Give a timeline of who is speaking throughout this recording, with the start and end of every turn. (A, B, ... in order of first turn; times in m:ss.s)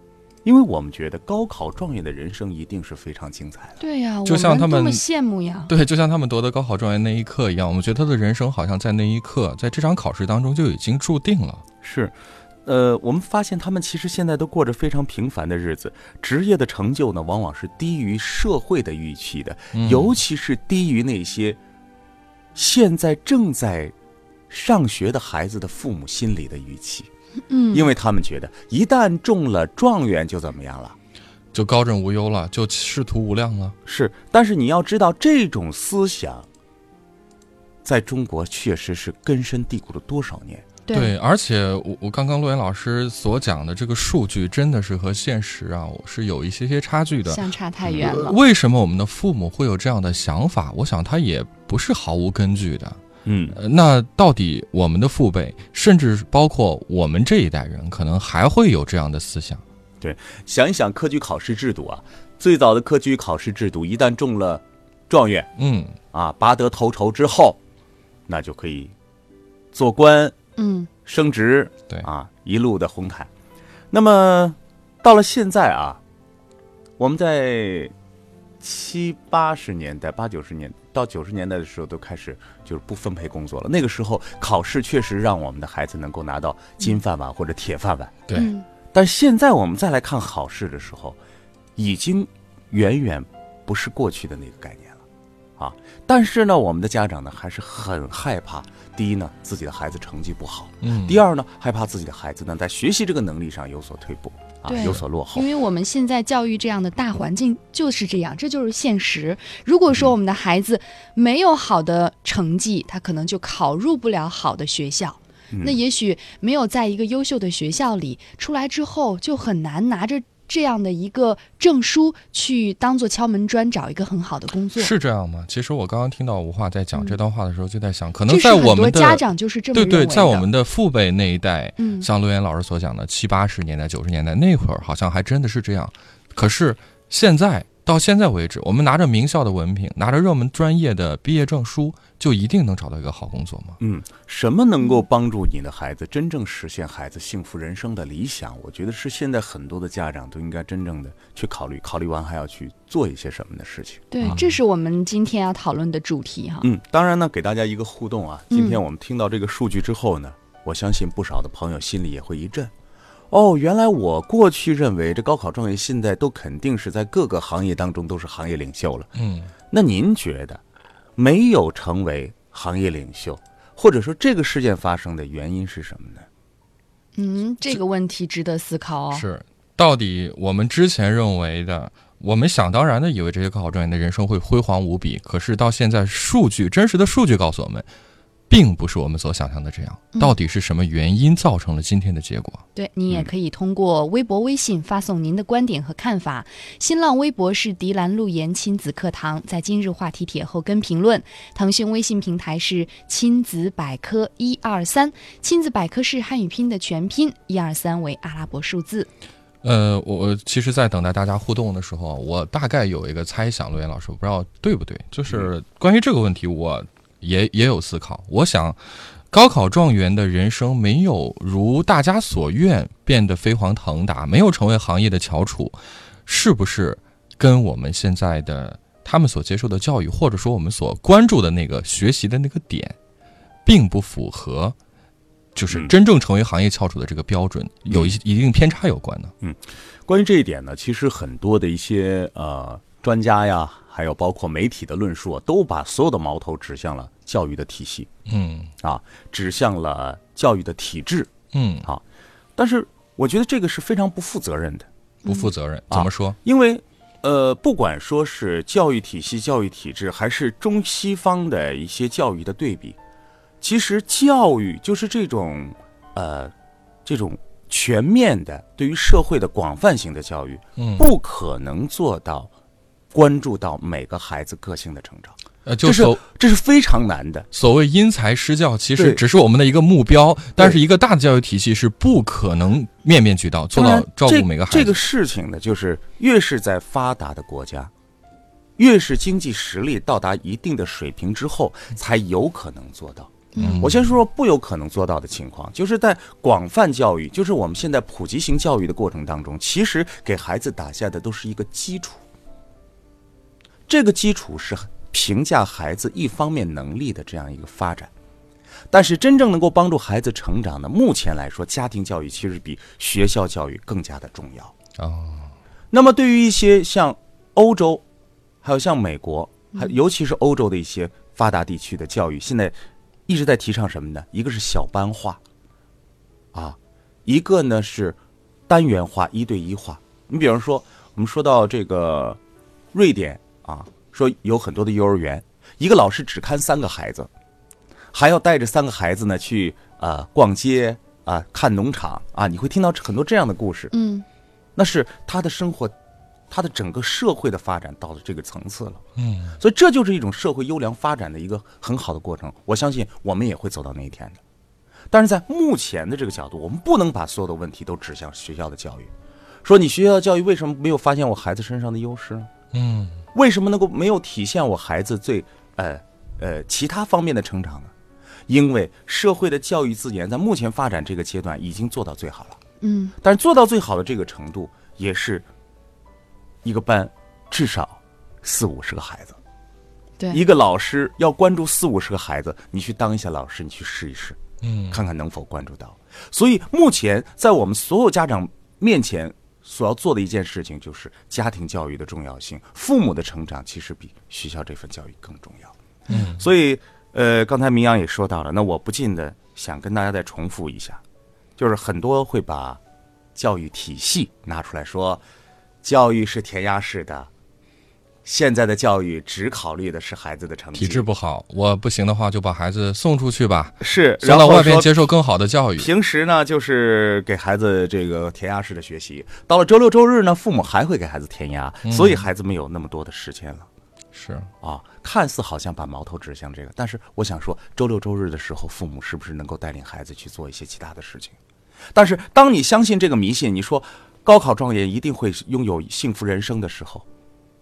0:00.4-0:03.8 A
0:03.8-0:05.7 B
0:04.3-0:05.0 C
0:05.7-0:11.6 C
0:11.8-0:21.6 A
0:19.7-0:20.2 C
0:22.6-0:23.9 A
0:24.5-0:27.1 A
0:27.5-0:27.9 B
0:27.7-0:31.0 A
0:31.5-0:33.8 C
0:33.9-0:36.5 A
0:37.8-0:40.7 A
0:40.9-0:41.1 B
0:40.9-0:53.0 C
0:47.2-0:48.4 B
0:53.2-0:53.6 A
0:53.5-0:59.6 C
1:00.0-1:05.5 A
1:05.6-1:06.0 C
1:06.1-1:07.6 A
1:08.3-1:08.9 A
1:09.7-1:10.4 A
1:10.6-1:10.9 B
1:11.0-1:13.3 A
1:13.9-1:16.0 A
1:17.0-1:17.9 A
1:18.6-1:28.4 A
1:28.3-1:28.7 B
1:28.9-1:31.2 A
1:31.8-1:35.0 A
1:35.6-1:45.5 A
1:40.8-1:41.2 C
1:44.6-2:04.9 B
1:55.5-1:55.8 A
2:04.8-2:23.8 C
2:08.3-2:10.5 B
2:11.8-2:12.1 B
2:23.8-2:34.4 A
2:34.1-2:36.7 B
2:34.2-2:34.5 C
2:36.6-2:42.7 A
2:38.5-2:38.8 B
2:43.3-2:49.1 A
2:49.2-2:49.5 C
2:49.7-2:50.6 A
2:51.2-2:56.3 A
2:57.2-2:59.2 B
2:59.1-3:07.9 C
3:08.5-3:12.6 C
3:12.8-3:29.1 B
3:29.6-3:38.8 C
3:39.3-3:53.0 C
3:53.6-3:54.8 C
3:55.6-3:59.3 C
3:57.9-3:58.2 A
3:59.4-4:08.1 A
4:08.3-4:08.7 C
4:08.8-4:11.3 A
4:11.5-4:11.9 C
4:12.6-4:14.9 A
4:15.2-4:15.5 B
4:15.3-4:16.4 C
4:15.9-4:23.0 A
4:23.6-4:26.5 A
4:27.0-4:32.5 A
4:30.8-4:31.1 C
4:33.1-4:37.5 A
4:35.7-4:36.2 C
4:37.5-4:45.0 C
4:39.0-4:39.2 A
4:43.7-4:47.9 A
4:48.8-5:02.3 A
4:53.6-4:53.8 B
4:53.6-4:54.0 C
5:03.9-5:08.1 A
5:08.9-5:14.7 A
5:15.0-5:15.5 C
5:15.9-5:18.0 A
5:18.6-5:22.8 A
5:23.3-5:25.4 A
5:26.5-5:32.4 A
5:32.9-5:37.3 A
5:38.1-5:43.9 A
5:43.9-5:44.2 B
5:44.8-5:46.0 A
5:46.5-5:49.0 A
5:49.2-5:49.6 C
5:49.6-5:54.4 A
5:55.1-5:59.1 A
5:59.6-6:02.5 A
6:02.7-6:03.2 C
6:03.3-6:07.9 A
6:08.5-6:12.6 A
6:12.8-6:13.2 B
6:13.2-6:15.5 A
6:16.6-6:19.4 A
6:20.3-6:24.4 A
6:24.6-6:25.0 C
6:24.9-6:35.7 A
6:36.1-6:36.4 C
6:36.4-6:41.0 A
6:41.6-6:42.8 A
6:43.4-6:45.2 A
6:45.8-6:47.3 A
6:48.2-6:51.1 A
6:50.8-6:55.9 C
6:53.8-6:55.1 A
6:55.8-7:03.7 A
7:01.8-7:02.3 C
7:04.1-7:04.5 C
7:04.6-7:11.4 A
7:11.9-7:17.1 A